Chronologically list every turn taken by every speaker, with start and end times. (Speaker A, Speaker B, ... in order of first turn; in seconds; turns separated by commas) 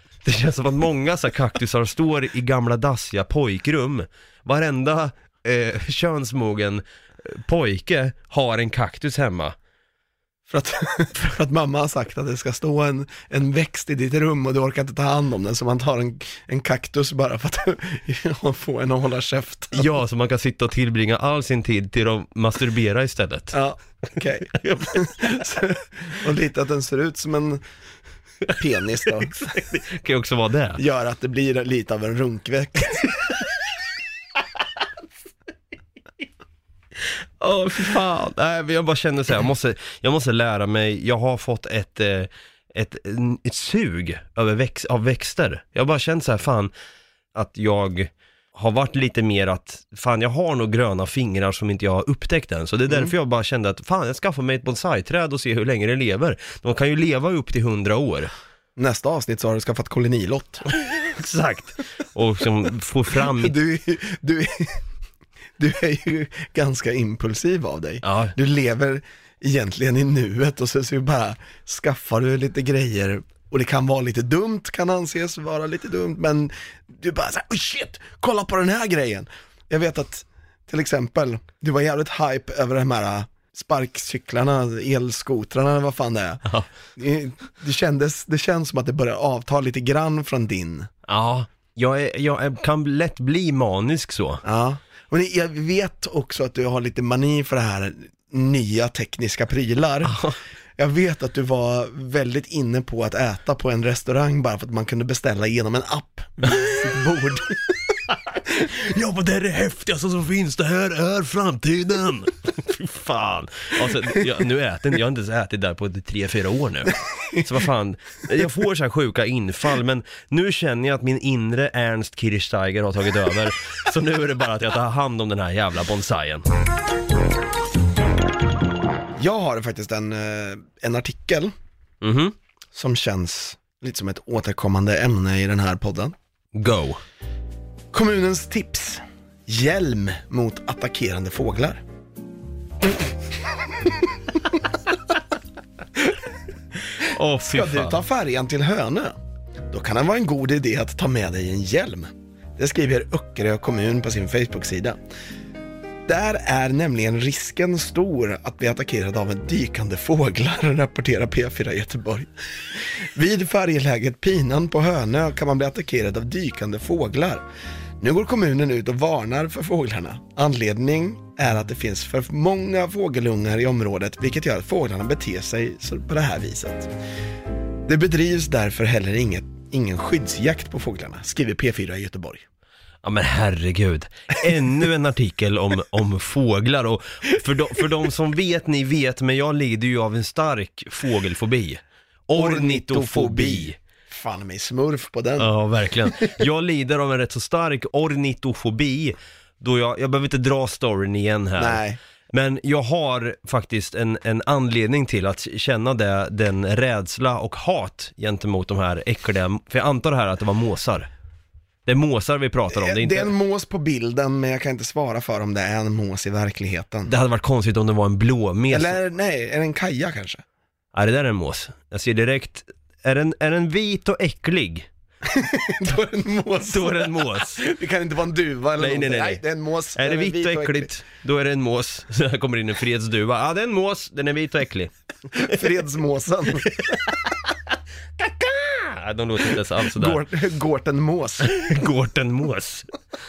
Speaker A: 0.2-9.6, Speaker B: 10.5-19.9, Speaker A: 19.7-23.6, Speaker B: 23.5-27.6, Speaker A: 24.6-24.9, Speaker B: 28.5-29.4, Speaker A: 29.2-30.8, Speaker B: 30.8-33.1, Speaker A: 37.4-46.7, Speaker A: 47.4-58.3, Speaker B: 52.9-53.1, Speaker B: 58.8-60.7, Speaker A: 60.8-63.5, Speaker B: 63.3-64.8, Speaker B: 65.6-86.5, Speaker A: 68.0-68.3, Speaker B: 87.0-90.9, Speaker A: 91.1-94.4, Speaker B: 94.4-100.2, Speaker A: 100.1-100.4, Speaker B: 100.8-107.6, Speaker A: 108.3-126.5, Speaker B: 129.2-131.5, Speaker A: 132.0-132.3, Speaker B: 132.7-136.1, Speaker A: 136.6-137.0, Speaker B: 137.9-141.8, Speaker A: 146.9-148.0, Speaker B: 147.4-149.2, Speaker B: 149.7-155.0, Speaker B: 156.1-167.4, Speaker B: 168.0-176.9, Speaker B: 177.9-182.4, Speaker A: 183.0-193.8, Speaker B: 192.3-195.5, Speaker A: 195.4-211.1, Speaker B: 196.1-196.3, Speaker B: 201.6-202.0, Speaker A: 211.9-213.3, Speaker B: 212.7-217.1, Speaker A: 217.1-219.0, Speaker B: 218.7-220.4, Speaker A: 220.9-224.9, Speaker B: 225.2-230.9, Speaker A: 226.7-227.6, Speaker A: 228.8-229.4, Speaker A: 230.0-234.9, Speaker B: 235.3-236.8, Speaker A: 236.6-237.4, Speaker A: 238.2-240.2, Speaker B: 239.9-241.5, Speaker A: 241.4-242.9